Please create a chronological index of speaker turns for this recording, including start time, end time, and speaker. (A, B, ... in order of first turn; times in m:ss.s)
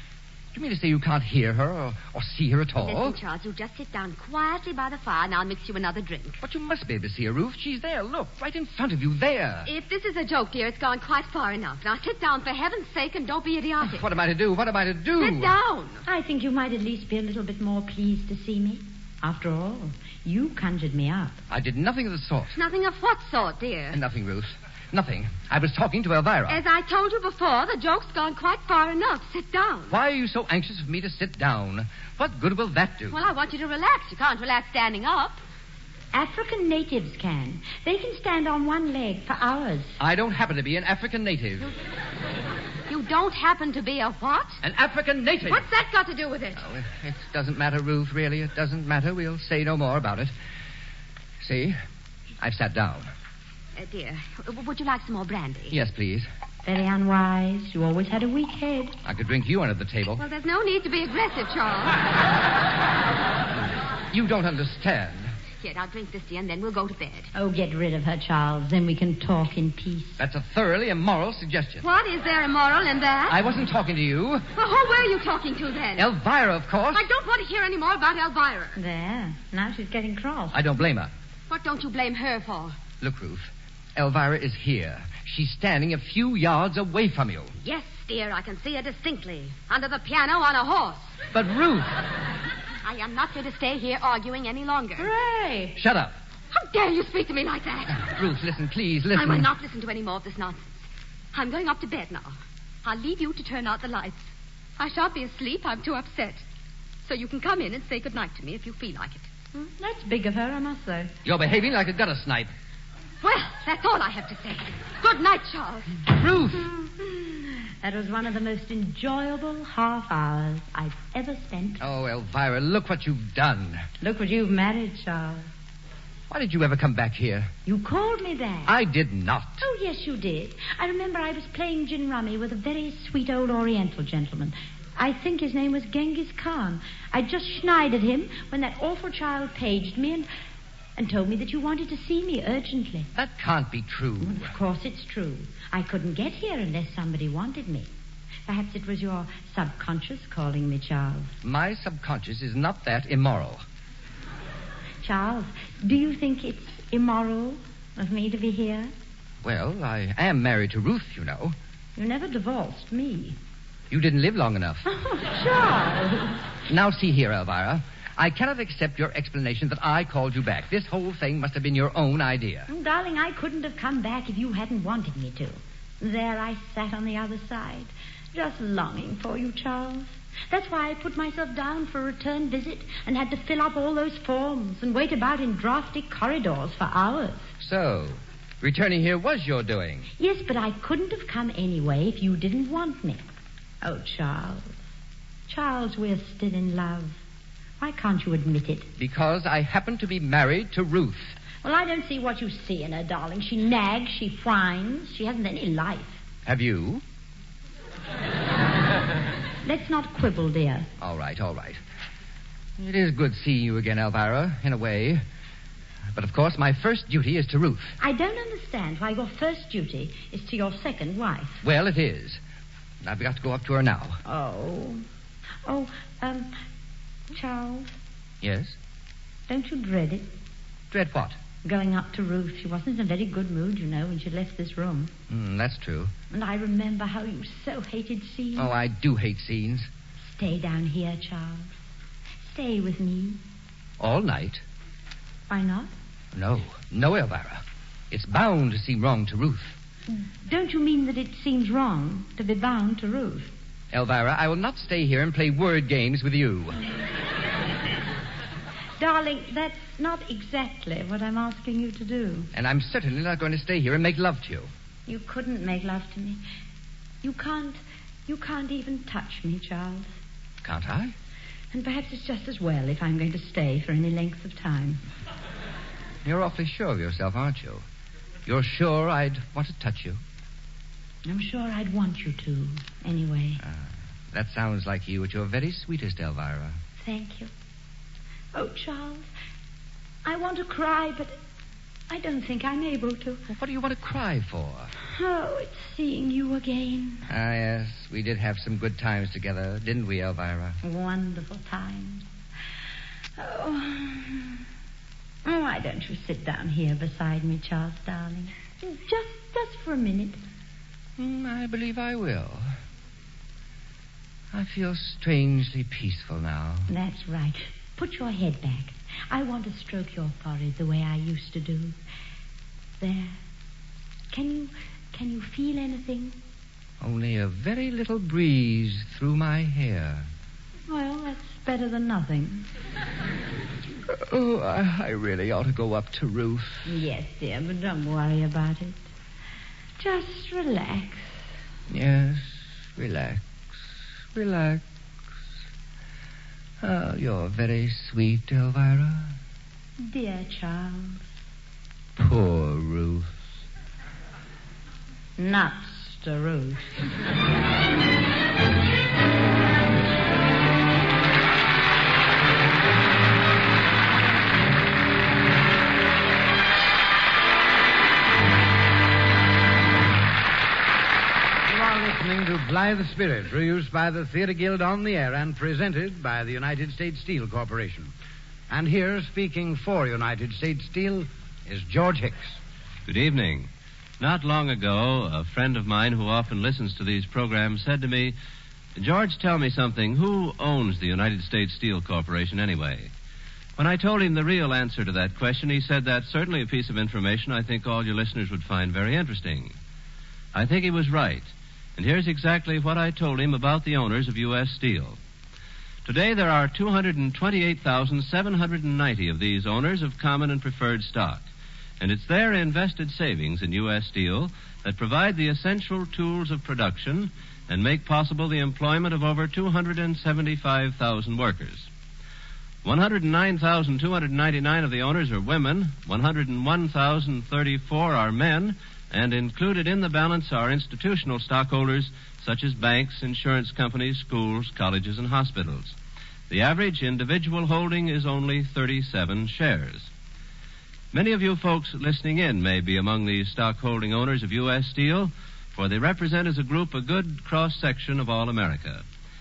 0:00.5-0:03.2 A
0:02.8-0:06.4 B
0:06.4-0:09.7 A
0:09.6-0:14.0 B
0:13.8-0:15.5 A
0:15.2-0:16.0 B
0:16.0-0:21.4 C
0:21.5-0:22.6 A
0:22.5-0:24.0 B
0:23.9-0:26.6 A
0:26.5-0:30.0 B
0:29.9-0:33.2 A
0:33.1-0:35.4 B
0:36.1-0:40.0 C
0:40.0-0:41.7 A
0:42.9-0:44.6 B
0:44.6-0:45.7 A
0:45.5-0:46.6 B
0:46.6-0:50.3 A
0:51.4-0:51.8 A
0:52.4-0:53.1 A
0:53.8-0:55.8 B
0:55.7-0:56.3 A
0:56.6-0:59.0 C
0:59.0-1:00.2 A
1:00.2-1:02.2 B
1:04.1-1:05.3 A
1:05.6-1:07.3 B
1:07.3-1:10.2 C
1:10.2-1:11.8 A
1:11.8-1:13.4 B
1:13.3-1:14.4 A
1:14.6-1:16.1 B
1:16.0-1:17.0 A
1:16.9-1:18.8 B
1:18.8-1:20.6 C
1:20.5-1:21.1 A
1:21.5-1:22.8 B
1:23.0-1:27.5 A
1:27.6-1:31.1 B
1:31.3-1:32.0 A
1:32.8-1:35.1 B
1:35.0-1:35.8 C
1:35.8-1:36.1 A
1:36.5-1:38.1 B
1:38.0-1:39.5 A
1:39.1-1:46.4 B
1:47.0-1:49.3 B
1:49.6-1:51.1 C
1:51.2-1:52.5 A
1:53.2-1:56.0 B
1:56.0-1:56.7 A
1:57.8-2:01.8 C
2:01.8-2:03.9 A
2:04.0-2:05.5 C
2:06.3-2:07.5 A
2:07.6-2:08.7 C
2:08.6-2:09.6 A
2:09.6-2:20.3 C
2:21.0-2:23.1 C
2:23.1-2:24.5 A
2:24.2-2:27.9 C
2:28.4-2:31.3 C
2:31.4-2:33.6 A
2:35.0-2:38.9 C
2:39.4-2:41.6 A
2:42.0-2:43.4 C
2:43.9-2:44.8 A
2:44.8-2:46.4 C
2:46.7-2:52.7 A
2:52.7-3:07.5 C
3:07.6-3:10.1 A
3:10.2-3:13.2 C
3:13.8-3:14.8 C
3:15.5-3:17.2 C
3:17.8-3:18.9 C
3:19.0-3:21.4 A
3:21.6-3:26.2 C
3:26.4-3:27.0 A
3:29.6-3:30.9 C
3:31.0-3:31.8 A
3:32.8-3:35.2 A
3:36.1-3:38.0 A
3:38.0-3:41.6 C
3:41.6-3:42.4 A
3:43.0-3:44.2 A
3:44.2-3:45.0 C
3:45.6-3:46.5 C
3:47.3-3:48.0 C
3:48.4-3:48.8 A
3:49.5-3:50.3 C
3:50.9-3:51.4 A
3:51.6-3:55.1 C
3:55.3-3:56.1 A
3:56.3-3:58.7 C
3:58.6-3:59.9 A
4:00.2-4:01.7 C
4:02.4-4:03.4 C
4:04.0-4:04.6 A
4:05.5-4:05.9 C
4:06.3-4:09.8 A
4:10.4-4:13.5 C
4:13.9-4:16.9 A
4:19.0-4:22.5 C
4:22.5-4:24.7 A
4:25.1-4:26.4 C
4:27.2-4:30.1 C
4:30.6-4:31.1 A
4:31.7-4:35.0 C
4:36.2-4:37.8 A
4:38.4-4:40.2 A
4:41.2-4:43.6 C
4:43.6-4:46.8 A
4:47.0-4:47.5 C
4:48.5-4:49.3 C
4:50.2-4:51.4 C
4:52.1-4:53.4 C
4:53.5-4:54.9 A
4:55.0-4:57.2 C
4:57.3-5:00.8 A
5:00.8-5:02.2 C
5:03.4-5:04.6 C
5:05.4-5:10.4 C
5:11.2-5:12.7 A
5:14.5-5:16.9 A
5:16.9-5:22.0 C
5:23.0-5:23.4 C
5:24.3-5:26.4 C
5:27.0-5:30.3 A
5:30.9-5:32.7 C
5:34.1-5:36.9 A
5:36.8-5:39.0 C
5:40.0-5:41.4 C
5:41.9-5:44.8 A
5:46.8-5:49.4 A
5:50.0-5:51.2 C
5:52.2-5:53.3 A
5:55.4-5:56.9 C
6:11.6-6:18.1 D
6:18.7-6:22.6 D
6:23.0-6:28.3 E
6:29.0-6:33.1 E
6:33.8-6:39.8 E
6:40.5-6:45.2 E
6:46.0-6:51.5 E
6:52.0-7:01.9 E
7:02.8-7:16.0 E
7:16.5-7:20.1 E
7:21.1-7:29.0 E